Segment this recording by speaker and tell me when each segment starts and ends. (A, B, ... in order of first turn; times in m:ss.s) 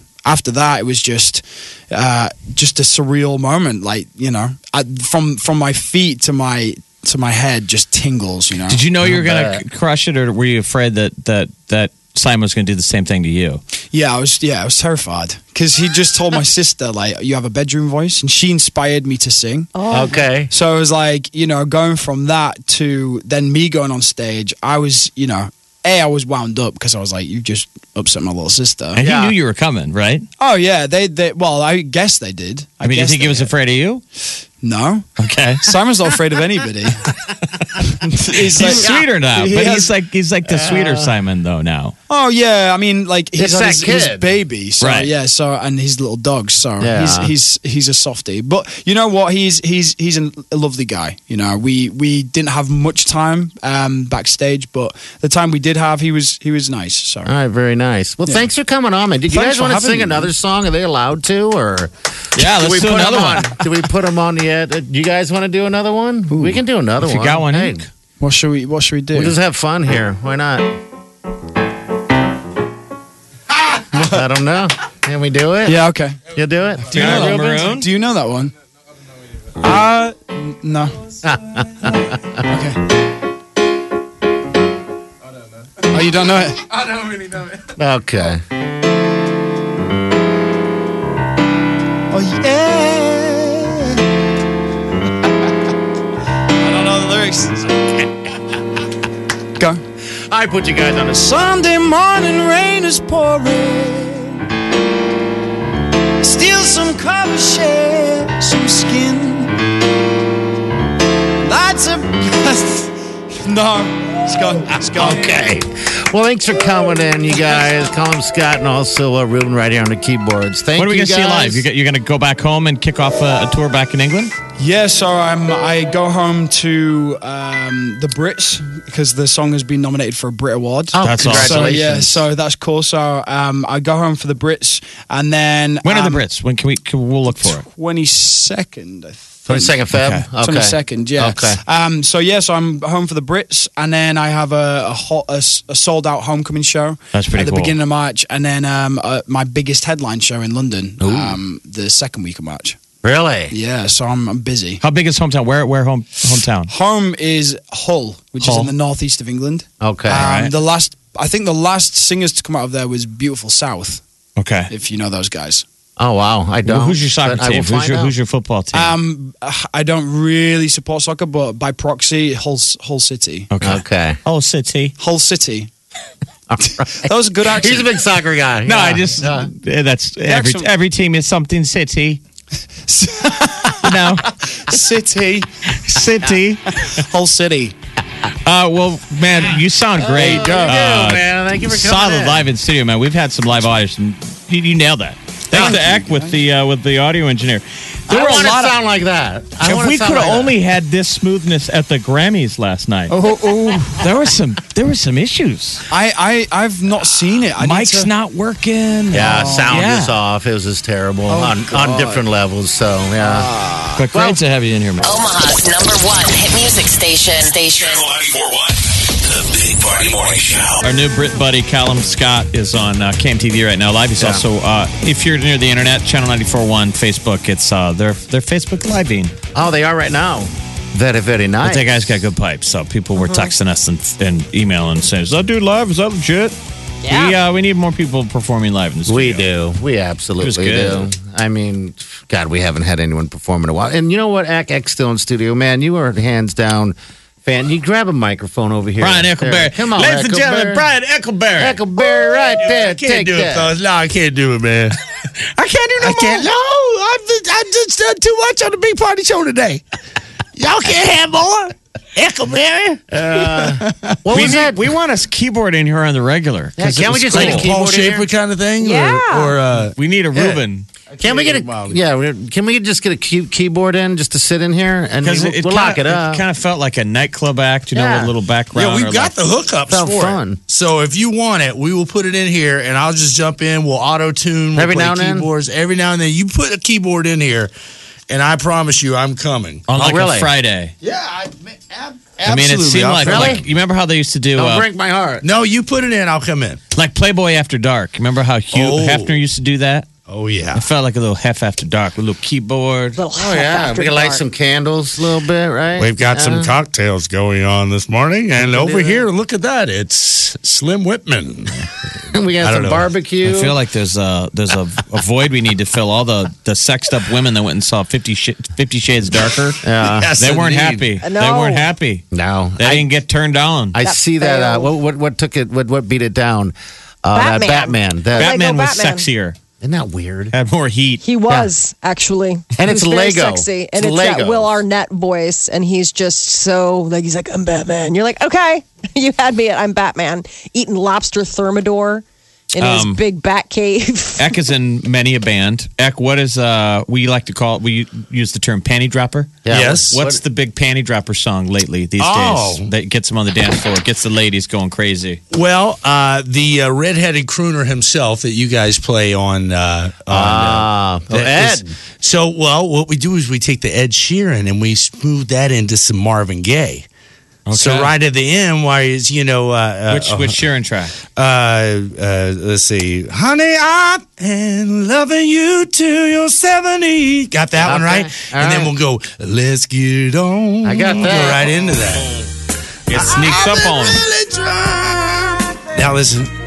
0:00.2-0:08.8 A
0:08.6-0:13.6 B
0:09.0-0:09.6 C
0:13.9-0:19.7 A
0:19.7-0:20.4 D
0:19.9-0:20.5 C
0:20.4-0:29.0 A
0:28.9-0:30.2 B
0:29.0-0:29.3 C
0:30.4-0:33.5 A
0:32.8-0:34.0 B
0:34.6-0:35.1 A
0:35.2-0:35.7 B
0:35.6-0:37.1 A
0:37.8-0:39.9 A
0:38.5-0:41.9 B
0:38.6-0:39.0 C
0:40.5-0:41.1 C
0:42.1-0:57.3 A
0:43.4-0:44.3 C
0:44.8-0:45.1 B
0:46.8-0:47.3 C
0:57.2-1:07.8 C
0:59.3-1:00.3 A
1:02.3-1:03.7 B
1:06.3-1:06.6 A
1:07.0-1:07.8 B
1:08.2-1:09.3 A
1:09.1-1:10.7 C
1:13.9-1:17.7 C
1:13.9-1:14.2 A
1:15.6-1:16.2 A
1:16.9-1:17.9 B
1:16.9-1:18.5 A
1:19.6-1:21.0 A
1:21.2-1:22.2 C
1:22.5-1:22.8 A
1:25.8-1:27.0 A
1:27.8-1:28.4 C
1:32.1-1:34.0 A
1:36.6-1:38.0 A
1:40.3-1:41.2 C
1:41.1-1:44.4 A
1:46.2-1:49.6 A
1:51.4-1:55.4 A
1:55.0-2:01.6 C
2:00.7-2:04.3 B
2:04.6-2:16.2 A
2:10.9-2:12.2 C
2:11.0-2:11.8 B
2:15.8-2:17.6 B
2:17.3-2:19.8 A
2:19.5-2:21.6 C
2:19.9-2:20.2 B
2:20.4-2:32.8 A
2:27.1-2:27.8 B
2:31.0-2:31.4 C
2:33.0-2:33.5 C
2:33.5-2:34.8 A
2:34.8-2:36.7 B
2:36.7-2:44.0 A
2:38.4-2:38.7 B
2:39.8-2:40.2 C
2:40.2-2:40.5 B
2:44.4-2:44.7 B
2:44.7-2:45.6 A
2:46.0-2:48.1 C
2:46.6-2:49.0 B
2:48.7-2:53.5 A
2:53.5-2:54.9 B
2:53.6-2:54.2 C
2:55.0-2:55.7 A
2:56.5-2:59.5 C
2:57.0-2:57.9 A
2:58.6-3:02.2 B
3:00.2-3:00.7 A
3:02.9-3:05.5 A
3:03.8-3:04.3 B
3:05.7-3:06.6 B
3:06.8-3:07.8 A
3:08.4-3:18.5 B
3:10.0-3:12.5 C
3:10.3-3:10.7 A
3:15.5-3:16.4 A
3:18.1-3:20.5 C
3:18.1-3:18.7 A
3:19.6-3:23.1 B
3:23.1-3:24.1 A
3:23.9-3:25.8 B
3:25.9-3:28.1 A
3:27.6-3:30.2 B
3:29.1-3:33.5 C
3:29.1-3:29.8 A
3:31.3-3:32.2 A
3:33.2-3:34.0 A
3:33.9-3:35.3 B
3:34.1-3:34.4 C
3:35.0-3:38.3 E
3:37.9-3:40.8 F
3:40.8-3:49.3 B
3:44.2-3:44.4 C
3:49.5-3:52.1 C
3:51.6-3:59.4 B
3:53.2-3:53.4 D
3:57.0-3:57.4 D
3:59.0-4:10.9 C
4:00.4-4:01.1 B
4:09.0-4:11.8 B
4:11.6-4:13.7 C
4:12.0-4:19.8 G
4:16.0-4:16.4 C
4:20.6-4:24.4 G
4:23.1-4:24.8 C
4:24.3-4:27.7 B
4:26.8-4:28.3 C
4:26.8-4:30.6 G
4:28.8-4:29.6 D
4:29.9-4:30.9 B
4:31.1-4:32.0 G
4:31.2-4:36.4 C
4:35.2-4:39.4 B
4:37.9-4:38.4 C
4:38.7-4:47.7 G
4:39.9-4:40.6 C
4:44.7-4:45.5 C
4:48.3-4:49.9 G
4:49.9-4:50.9 B
4:49.9-4:50.5 C
4:51.0-4:53.6 G
4:52.4-4:54.8 B
4:53.2-4:53.6 C
4:54.5-4:55.4 C
4:55.4-4:56.8 G
4:56.9-5:00.1 B
4:58.7-4:59.4 G
5:00.3-5:00.8 G
5:00.7-5:03.2 B
5:03.1-5:04.4 D
5:03.3-5:06.7 C
5:06.0-5:11.8 G
5:08.6-5:09.2 C
5:12.3-5:13.8 C
5:12.6-5:13.1 G
5:13.4-5:19.8 B
5:19.8-5:20.3 C
5:20.0-5:21.1 G
5:20.4-5:22.2 B
5:21.2-5:21.9 D
5:22.3-5:23.1 C
5:22.8-5:24.0 B
5:23.9-5:28.5 C
5:24.0-5:25.0 D
5:27.3-5:29.3 D
5:28.3-5:29.6 B
5:29.8-5:30.5 C
5:30.5-5:31.2 B
5:31.2-5:44.6 D
5:32.8-5:34.8 C
5:42.8-5:43.2 B
5:44.4-5:55.4 B
5:49.6-5:50.4 C
5:49.7-5:50.2 G
5:52.2-5:52.9 G
5:55.5-6:07.1 G
6:00.3-6:01.9 C
6:07.7-6:08.1 B
6:07.7-6:10.6 G
6:10.1-6:11.2 B
6:11.2-6:22.4 G
6:17.8-6:18.9 C
6:20.8-6:21.7 C
6:23.1-6:24.2 B
6:23.1-6:26.5 G